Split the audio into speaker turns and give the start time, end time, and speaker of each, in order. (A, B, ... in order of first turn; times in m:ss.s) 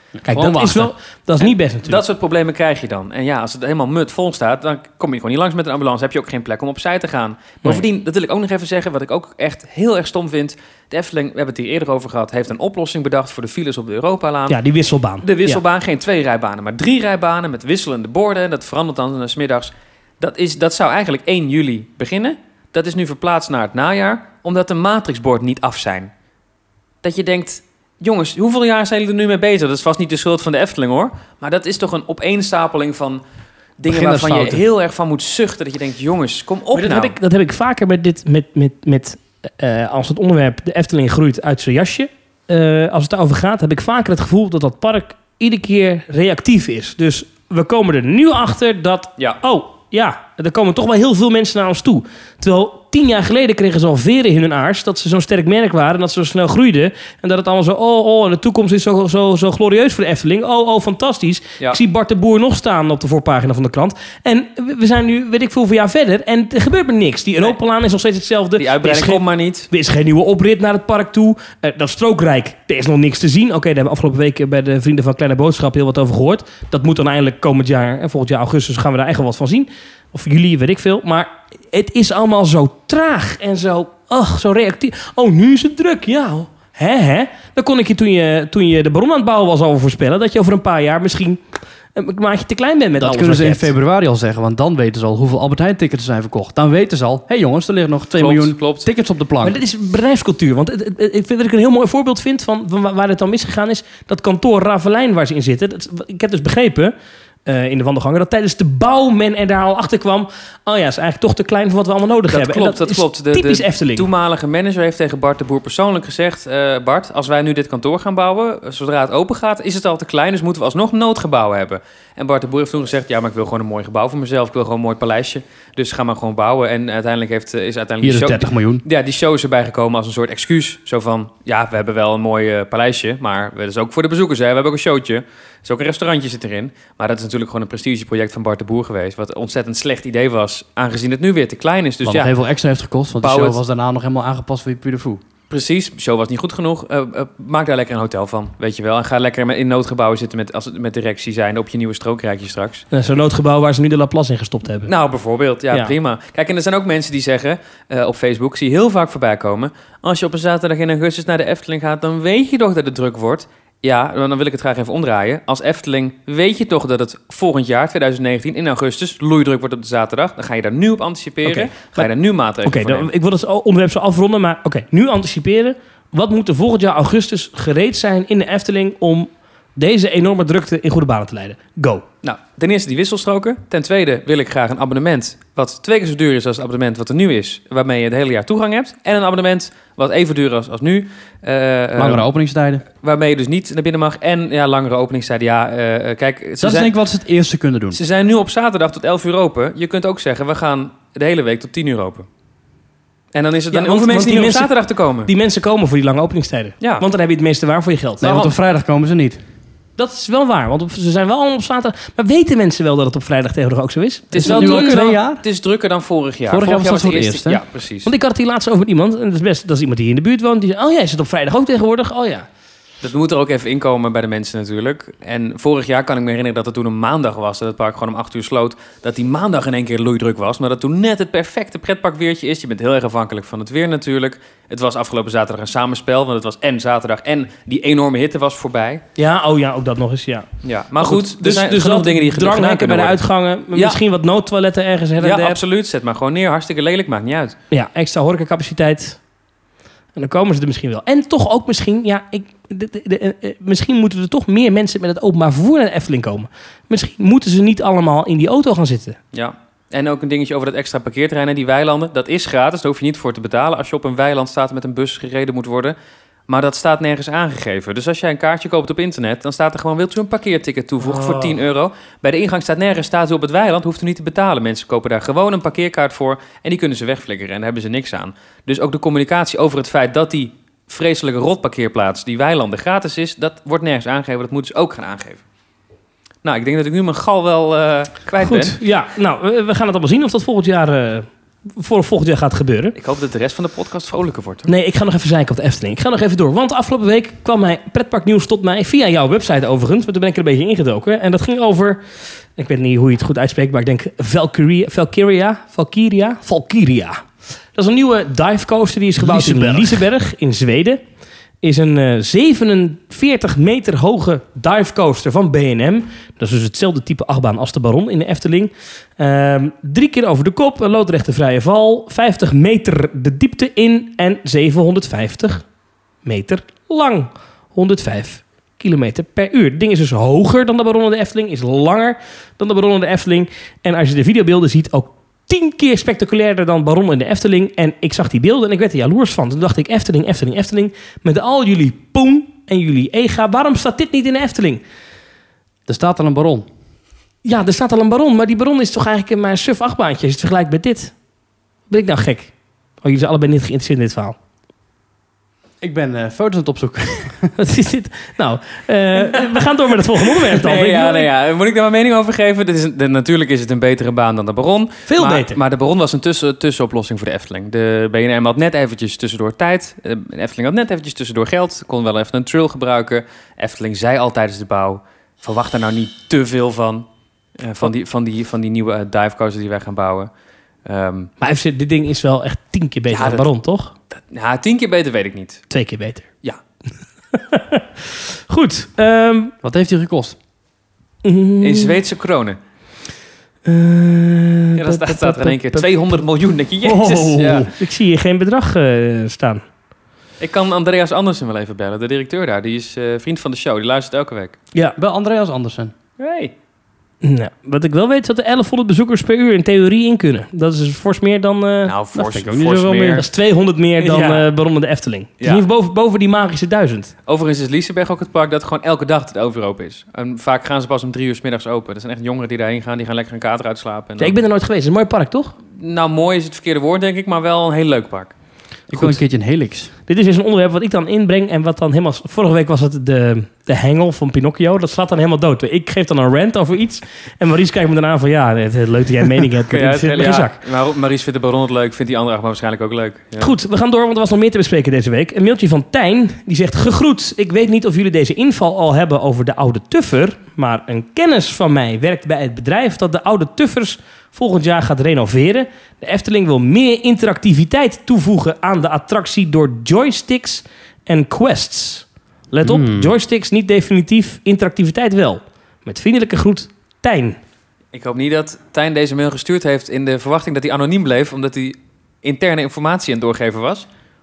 0:00.2-0:00.9 A
0:00.3-0:02.0 B
0:01.4-0:14.6 C
0:14.5-0:15.6 B
0:15.2-0:26.1 C
0:27.0-0:33.2 C
0:33.8-0:37.1 C
0:33.9-0:34.6 A
0:36.7-1:31.4 B
1:08.6-1:09.7 C
1:32.0-1:33.7 B
1:33.0-1:39.6 A
1:38.1-1:38.9 C
1:39.4-1:46.9 B
1:47.5-1:54.1 B
1:52.3-2:22.3 C
2:08.0-2:08.8 A
2:22.0-2:25.2 A
2:23.2-2:23.6 C
2:25.5-2:32.8 C
2:32.9-2:34.9 B
2:34.9-2:53.1 C
2:51.4-2:52.1 B
2:52.6-3:02.0 B
3:02.2-3:12.3 C
3:12.0-3:12.8 A
3:13.0-3:16.9 C
3:16.6-3:18.0 A
3:17.9-3:22.3 C
3:23.3-3:25.3 C
3:23.7-3:24.7 B
3:25.2-3:28.3 B
3:28.2-3:29.4 A
3:28.2-3:28.6 C
3:30.0-3:35.0 B
3:34.3-3:35.4 A
3:34.3-3:38.1 C
3:36.5-3:37.6 A
3:38.0-3:42.5 B
3:43.0-3:59.0 C
3:59.2-4:00.5 B
4:00.6-4:03.2 C
4:01.0-4:05.6 B
4:03.7-4:04.0 C
4:05.2-4:07.6 C
4:07.7-4:09.2 B
4:10.2-4:19.2 B
4:19.3-4:26.0 C
4:26.5-4:45.4 C
4:31.1-4:31.5 B
4:46.4-4:48.8 C
4:48.4-4:52.9 B
4:53.0-4:54.7 C
4:54.7-5:11.0 B
5:09.2-5:10.0 A
5:11.6-5:25.7 B
5:26.2-5:44.8 B
5:45.9-5:46.7 A
5:47.4-5:51.2 B
5:51.9-5:54.4 B
5:55.8-5:57.5 A
5:57.6-6:01.3 B
6:00.5-6:17.1 C
6:05.1-6:05.6 B
6:17.6-6:20.3 C
6:20.8-6:21.3 C
6:21.4-6:23.9 B
6:23.1-6:23.5 C
6:24.3-6:25.6 C
6:25.7-6:26.3 B
6:27.3-6:29.5 B
6:29.6-6:30.4 A
6:31.2-6:32.0 B
6:31.6-6:32.6 C
6:33.7-6:36.1 B
6:34.8-6:37.7 C
6:36.8-6:39.6 B
6:40.4-6:44.6 C
6:45.0-6:45.9 A
6:46.2-6:46.5 C
6:47.2-6:51.9 B
6:51.9-6:53.2 C
6:52.1-6:53.2 A
6:53.2-6:57.1 B
6:54.0-6:54.5 C
6:57.3-7:04.4 C
7:04.2-7:05.5 B
7:05.8-7:08.3 C
7:08.9-7:09.9 A
7:10.1-7:20.6 B
7:19.7-7:23.5 C
7:23.4-7:47.4 B
7:42.6-7:43.1 A
7:47.9-7:53.9 C